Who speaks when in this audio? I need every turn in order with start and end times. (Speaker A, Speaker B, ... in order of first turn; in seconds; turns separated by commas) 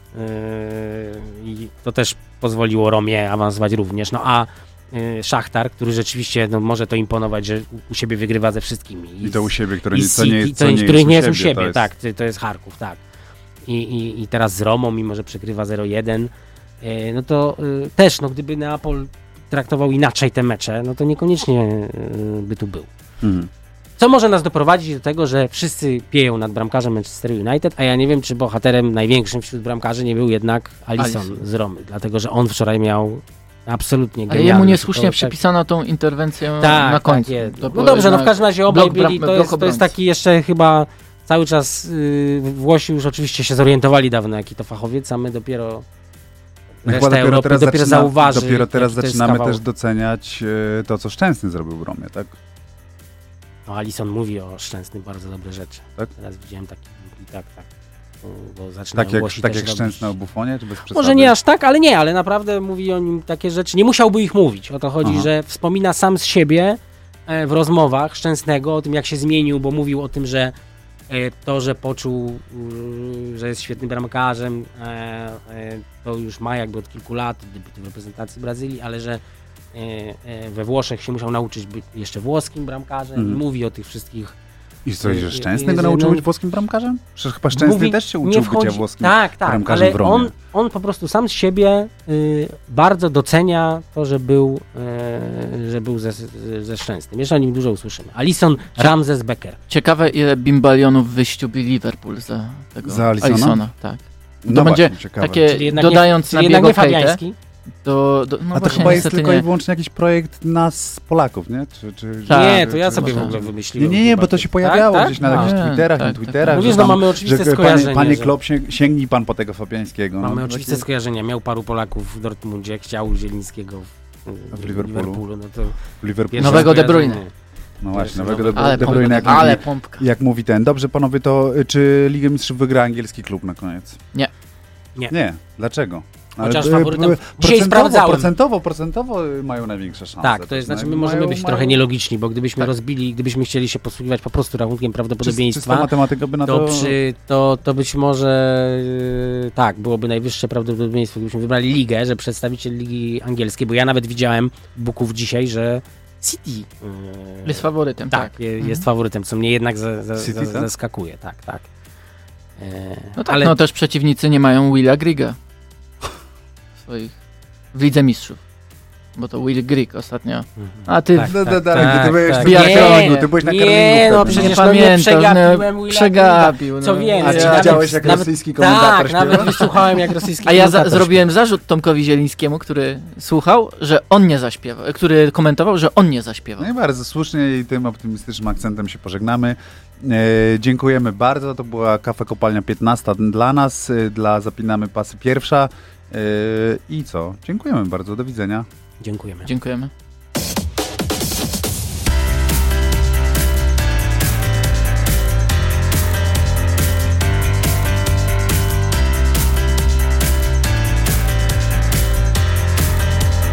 Speaker A: 0.1-13.0, Speaker B: 9.2-11.9, Speaker A: 13.7-16.3, Speaker A: 16.8-22.9, Speaker B: 23.2-23.5, Speaker A: 24.0-35.3, Speaker C: 31.0-31.4, Speaker C: 34.3-39.9, Speaker A: 36.6-45.9, Speaker A: 46.8-49.6, Speaker B: 46.9-52.4, Speaker A: 53.7-57.7, Speaker A: 58.2-60.1, Speaker B: 59.0-61.4, Speaker A: 60.9-70.5, Speaker B: 65.0-65.3, Speaker A: 71.1-79.2, Speaker A: 79.7-84.3, Speaker B: 83.2-83.4, Speaker B: 84.8-90.3, Speaker A: 85.0-86.2, Speaker A: 87.5-99.6, Speaker C: 99.7-107.2, Speaker B: 102.9-103.6, Speaker B: 104.4-105.5, Speaker A: 105.5-107.4, Speaker C: 107.8-109.5, Speaker B: 108.5-120.8, Speaker C: 112.3-113.4, Speaker A: 112.3-115.5, Speaker C: 115.2-117.0, Speaker A: 116.5-118.3, Speaker A: 120.2-127.3, Speaker B: 124.5-125.2, Speaker B: 126.0-127.0, Speaker C: 126.4-127.2, Speaker B: 127.8-134.0, Speaker A: 127.9-129.6, Speaker C: 128.5-130.1, Speaker B: 135.1-141.9, Speaker A: 136.4-138.3, Speaker A: 140.2-145.9, Speaker B: 145.2-147.0, Speaker A: 146.4-161.7, Speaker C: 157.5-158.8, Speaker B: 160.2-160.7, Speaker A: 162.6-163.5, Speaker C: 163.2-165.4, Speaker C: 166.8-167.1, Speaker C: 167.7-168.4, Speaker C: 169.2-173.3, Speaker A: 170.6-181.2, Speaker B: 171.3-174.7, Speaker C: 174.2-178.2, Speaker B: 177.2-179.7, Speaker C: 179.3-179.7, Speaker C: 180.4-186.7, Speaker B: 186.6-198.7, Speaker A: 199.0-199.5, Speaker C: 199.5-199.9